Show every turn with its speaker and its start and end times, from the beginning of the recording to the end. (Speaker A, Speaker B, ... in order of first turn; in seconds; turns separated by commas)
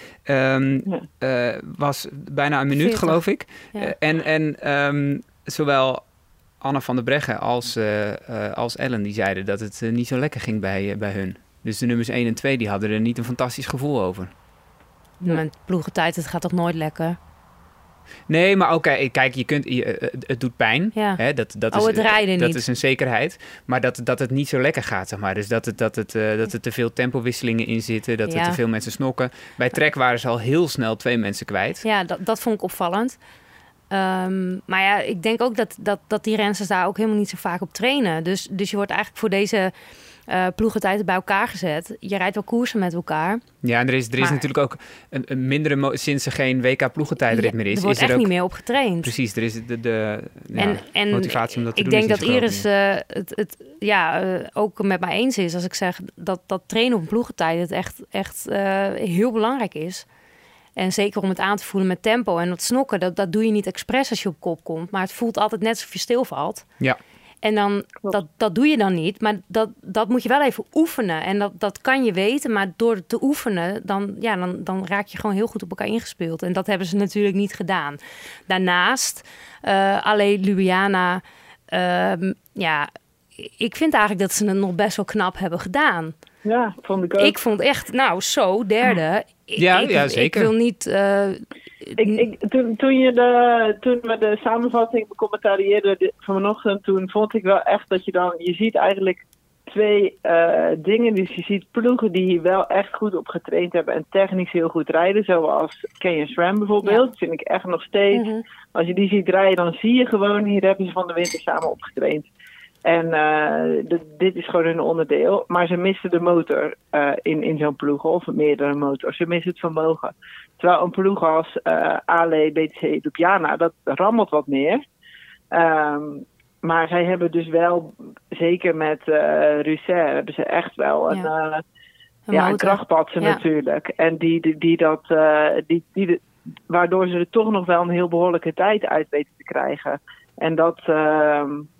Speaker A: 0.2-6.1, Speaker B: 2.8-3.9, Speaker A: 6.6-14.3, Speaker B: 15.2-17.2, Speaker A: 18.3-31.8, Speaker B: 20.9-22.6, Speaker B: 28.3-28.6, Speaker B: 31.8-33.2, Speaker B: 33.9-39.7, Speaker B: 40.3-43.4, Speaker A: 43.6-48.3, Speaker B: 47.3-49.1, Speaker A: 49.0-52.6, Speaker B: 50.6-60.0, Speaker B: 60.8-66.7, Speaker B: 67.4-86.1, Speaker C: 86.4-87.3, Speaker B: 87.2-92.2, Speaker A: 89.6-90.5, Speaker C: 92.0-112.3, Speaker B: 108.1-108.4, Speaker C: 112.8-124.8, Speaker C: 125.5-131.6, Speaker B: 132.3-133.4, Speaker C: 132.3-141.7